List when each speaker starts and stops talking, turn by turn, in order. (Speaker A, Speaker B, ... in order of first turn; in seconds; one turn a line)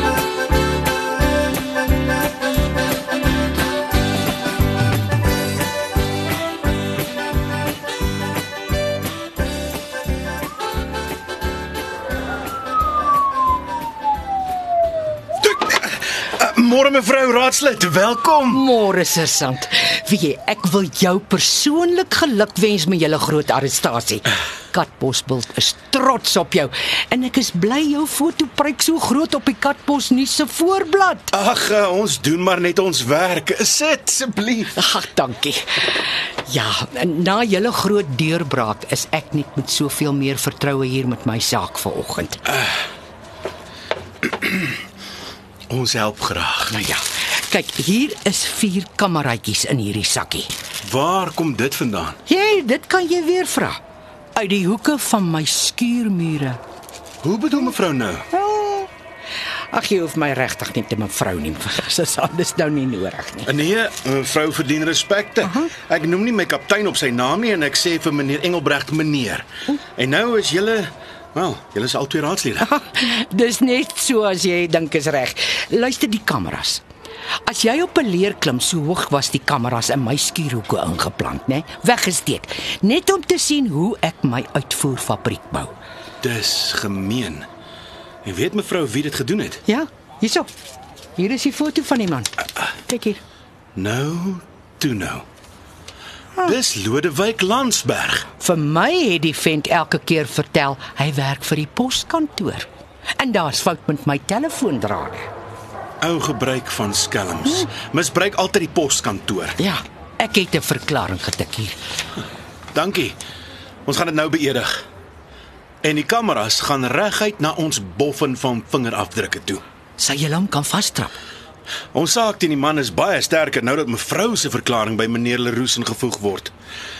Speaker A: 15.4-18.6
Speaker B: 18.5-31.3
Speaker A: 31.3-34.7
Speaker B: 34.7-42.4
Speaker A: 45.7-46.7
Speaker B: 46.7-50.5
Speaker A: 50.8-52.2
Speaker B: 52.3-53.8
Speaker B: 54.3-56.6
Speaker A: 57.2-58.3
Speaker B: 58.3-58.9
Speaker B: 59.7-63.5
Speaker A: 63.5-72.7
Speaker B: 65.4-65.7
Speaker B: 72.6-76.8
Speaker B: 77.4-85.7
Speaker A: 86.2-87.5
Speaker A: 88.2-89.6
Speaker B: 89.7-90.5
Speaker B: 91.2-93.2
Speaker A: 93.8-95.2
Speaker A: 96.4-98.2
Speaker B: 98.4-105.3
Speaker A: 106.0-109.6
Speaker B: 109.6-111.8
Speaker A: 112.7-113.2
Speaker A: 113.8-114.8
Speaker A: 115.8-119.6
Speaker B: 120.0-121.1
Speaker A: 121.9-126.5